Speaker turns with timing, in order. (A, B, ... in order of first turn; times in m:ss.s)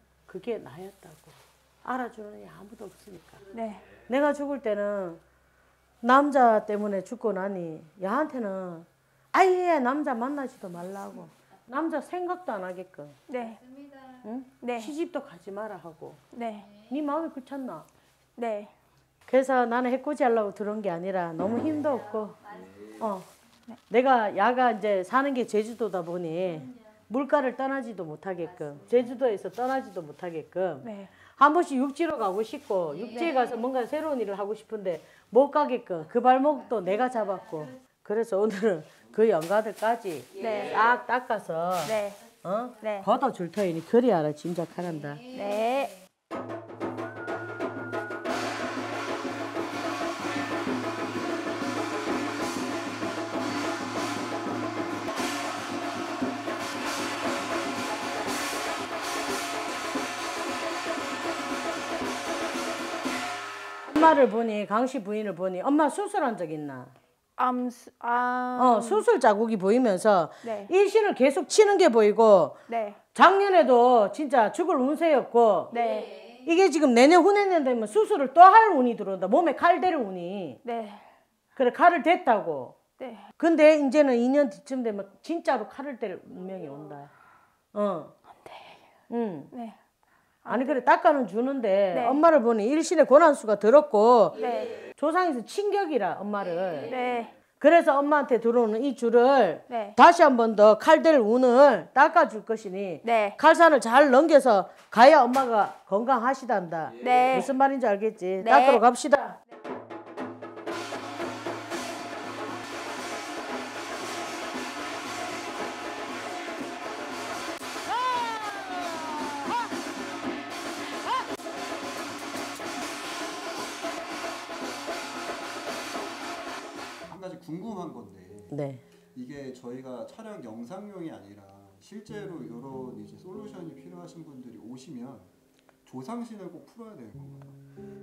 0:00.3-0:03.4 A
0:03.5-0:03.9 B
0:04.0-0:05.2 A
0:06.0-0:13.2 A
0:13.3-0:13.6 B
0:14.2-0:16.2 A
0:14.6-0:14.9 B
0:16.3-0:16.8 B
0:16.8-0:17.9 A
0:18.4-0:18.7 B
0:19.3-0:23.3 A
0:23.9-0:45.2 A
0:30.8-0:31.1 B
0:33.1-0:33.5 B
0:40.4-0:40.9 B
0:41.8-0:42.2 B
0:42.8-0:43.1 B
0:45.3-0:46.0 B
1:03.9-1:06.9 A
1:07.4-1:09.0 B
1:08.6-1:12.6 A
1:10.4-1:10.7 B
1:12.7-1:13.0 B
1:13.1-1:15.8 A
1:15.7-1:16.3 B
1:16.4-1:20.6 A
1:20.6-1:21.1 B
1:21.6-1:22.8 A
1:23.0-1:23.3 B
1:23.4-1:27.1 A
1:27.7-1:28.1 A
1:28.3-1:28.8 B
1:29.1-1:29.5 A
1:29.5-1:29.8 B
1:30.4-1:30.9 B
1:30.5-1:37.0 A
1:31.9-1:32.2 B
1:34.4-1:34.8 B
1:36.9-1:37.3 B
1:37.5-1:49.4 A
1:39.7-1:40.0 B
1:43.0-1:43.4 B
1:47.0-1:47.5 B
1:47.0-1:47.3 C
1:48.4-1:48.8 B
2:07.1-2:08.6 C
2:08.5-2:08.8 A
2:09.1-2:15.3 C
2:15.8-2:17.6 C